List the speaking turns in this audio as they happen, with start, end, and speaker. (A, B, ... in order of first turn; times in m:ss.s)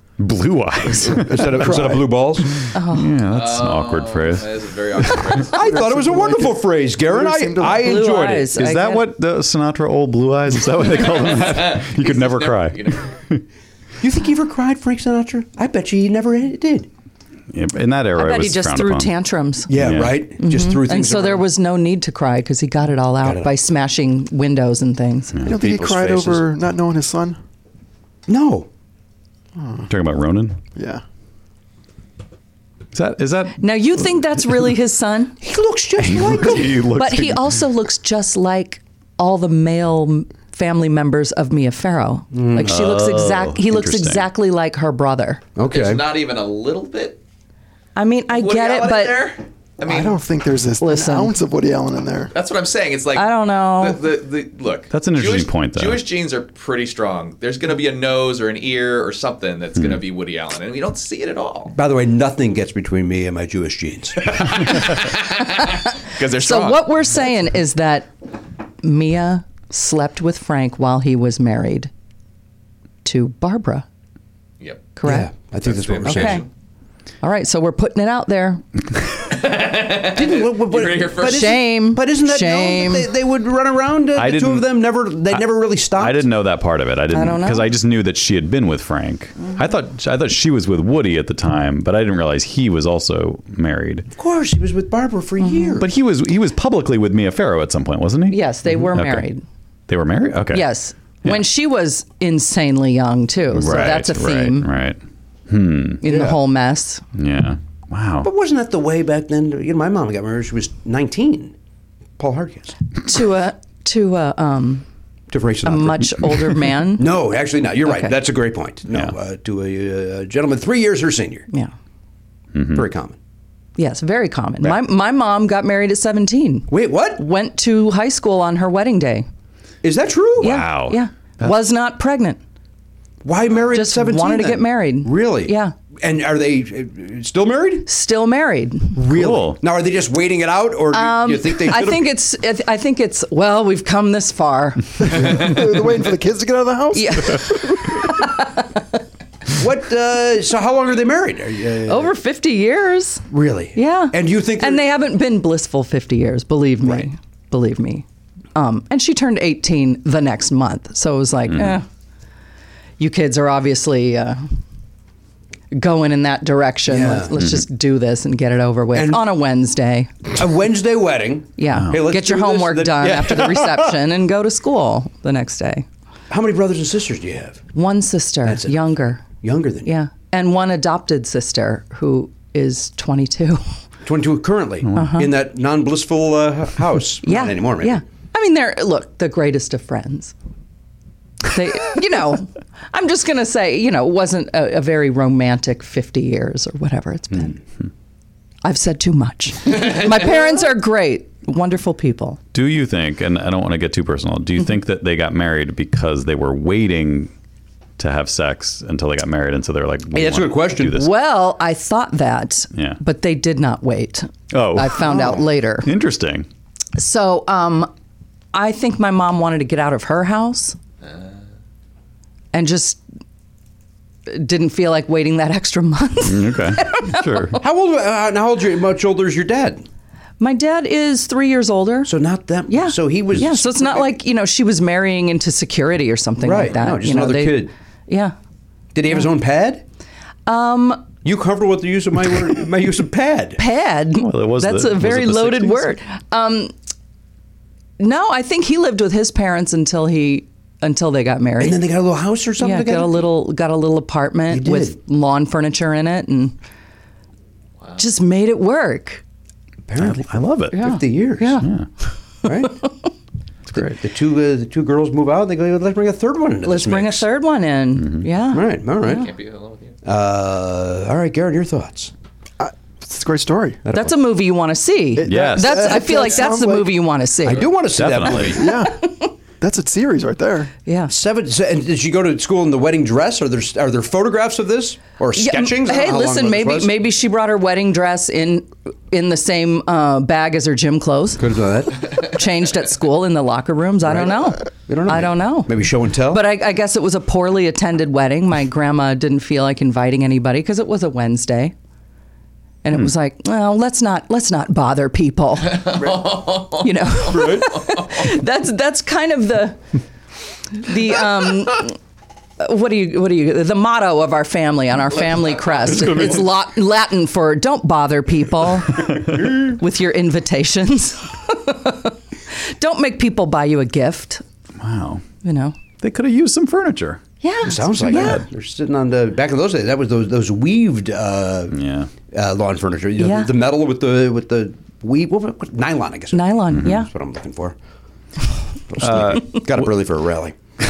0:00.2-0:05.4 A
0:01.0-0:02.6 B
0:01.6-0:01.9 C
0:02.7-0:03.2 D
0:03.3-0:05.7 E
0:05.4-0:08.5 B
0:05.6-0:07.9 C
0:07.7-0:09.1 D
0:08.5-0:13.4 A
0:10.8-0:13.1 E
0:14.0-0:16.9 B
0:17.5-0:19.1 A
0:18.1-0:19.7 D
0:19.7-0:21.5 B
0:19.7-0:20.2 A
0:20.4-0:25.3 D
0:23.2-0:23.5 B
0:25.4-0:26.4 B
0:25.4-0:27.4 C
0:28.3-0:28.7 B
0:29.6-0:29.9 C
0:29.9-0:30.6 A
0:30.7-0:31.0 C
0:32.9-0:33.7 A
0:33.6-0:35.4 D
0:35.4-0:36.9 B
0:36.0-0:37.4 A
0:36.9-0:45.4 D
0:42.3-0:42.8 B
0:42.7-0:44.2 A
0:45.6-0:46.0 B
0:45.7-0:47.2 E
0:48.0-0:49.3 D
0:48.3-0:50.2 E
0:49.8-0:52.3 C
0:50.8-0:51.3 D
0:52.3-1:01.7 E
0:53.1-0:54.0 D
0:54.9-0:56.0 A
1:01.7-1:04.5 B
1:04.2-1:06.9 E
1:06.2-1:08.1 D
1:08.8-1:11.9 D
1:13.0-1:13.8 D
1:14.6-1:14.9 E
1:15.0-1:15.3 D
1:15.0-1:16.4 B
1:15.6-1:16.5 E
1:16.0-1:16.5 D
1:17.2-1:18.6 D
1:19.2-1:21.5 E
1:20.0-1:26.2 B
1:21.2-1:23.1 D
1:24.1-1:24.6 A
1:26.0-1:34.1 A
1:27.1-1:27.7 D
1:34.1-1:35.9 B
1:35.4-1:35.8 D
1:35.8-1:39.2 A
1:38.3-1:39.4 D
1:39.9-1:40.7 A
1:40.5-1:44.7 D
1:43.5-1:46.0 A
1:46.0-1:47.0 D
1:46.0-1:46.4 B
1:47.2-1:48.3 A
1:48.2-1:51.5 B
1:52.2-1:52.8 B
1:53.0-1:54.8 D
1:55.3-1:56.4 B
1:55.6-1:57.1 D
1:57.0-2:01.5 B
1:57.8-1:58.2 D
2:02.5-2:02.8 A
2:02.7-2:03.2 B
2:03.8-2:09.3 D
2:06.7-2:07.2 B
2:09.8-2:10.6 B
2:10.4-2:12.4 D
2:10.4-2:11.5 A
2:13.2-2:17.9 B
2:13.6-2:15.7 D
2:17.9-2:19.0 D
2:18.9-2:22.1 B
2:19.1-2:19.6 A
2:20.9-2:25.5 D
2:25.0-2:28.1 C
2:26.9-2:29.0 D
2:29.5-2:32.1 B
2:31.8-2:33.2 D
2:33.3-2:34.8 B
2:33.7-2:41.8 D
2:43.0-2:44.4 D
2:45.7-2:50.3 D
2:46.9-2:47.3 B
2:48.9-2:49.2 B
2:50.3-2:53.9 B
2:51.6-2:55.8 D
2:56.3-2:57.6 B
2:57.7-2:59.2 D
2:58.4-2:59.9 B
2:59.8-3:03.6 D
3:04.0-3:08.0 B
3:04.9-3:05.3 D
3:07.2-3:10.3 D
3:11.5-3:17.6 D
3:18.6-3:22.4 D
3:22.5-3:27.3 A
3:28.0-3:31.1 A
3:30.1-3:31.0 B
3:30.9-3:35.9 D
3:32.7-3:33.0 A
3:34.5-3:35.3 A
3:35.1-3:35.4 B
3:35.8-3:36.4 A
3:37.0-3:37.9 D
3:38.5-3:40.8 D
3:42.5-3:43.0 D
3:44.3-3:47.6 D
3:46.2-3:47.6 A
3:47.6-3:49.8 B
3:50.4-3:52.1 D
3:52.0-3:54.0 B
3:52.7-3:58.3 D
3:56.4-3:57.7 B
3:58.9-3:59.8 B
4:00.4-4:01.1 D
4:01.2-4:03.6 B
4:03.6-4:06.7 D
4:04.2-4:05.9 A
4:08.0-4:11.8 D
4:11.6-4:13.2 B
4:12.6-4:16.6 D
4:14.5-4:15.0 B
4:18.0-4:19.2 D
4:19.9-4:21.6 B
4:20.0-4:20.8 A
4:20.7-4:21.7 D
4:21.6-4:21.9 A
4:22.4-4:22.8 B
4:23.7-4:24.0 A
4:23.7-4:27.2 B
4:26.6-4:29.3 D
4:28.0-4:28.2 A
4:28.5-4:29.3 B
4:29.1-4:30.0 E
4:30.0-4:32.1 B
4:32.6-4:33.8 C
4:33.8-4:34.1 B
4:33.9-4:37.7 D
4:35.2-4:37.0 C
4:35.2-4:36.0 A
4:37.4-4:38.7 B
4:37.9-4:38.7 A
4:38.5-4:40.7 C
4:38.7-4:39.3 D
4:40.8-4:41.1 D
4:41.1-4:46.9 B
4:45.3-5:01.7 D
4:51.4-4:52.1 B
4:54.0-4:56.4 B
5:02.8-5:09.8 D
5:05.7-5:08.3 E
5:07.2-5:07.7 B
5:10.7-5:12.0 D
5:12.6-5:24.4 D
5:15.4-5:16.2 E
5:24.8-5:25.2 A
5:25.4-5:25.8 D
5:26.0-5:27.2 A
5:27.4-5:28.4 D
5:27.6-5:31.8 B
5:28.0-5:28.4 A
5:31.7-5:32.1 A
5:32.3-5:37.8 B
5:33.2-5:33.5 D
5:36.3-5:37.1 D
5:38.9-5:40.6 B
5:39.0-5:39.9 A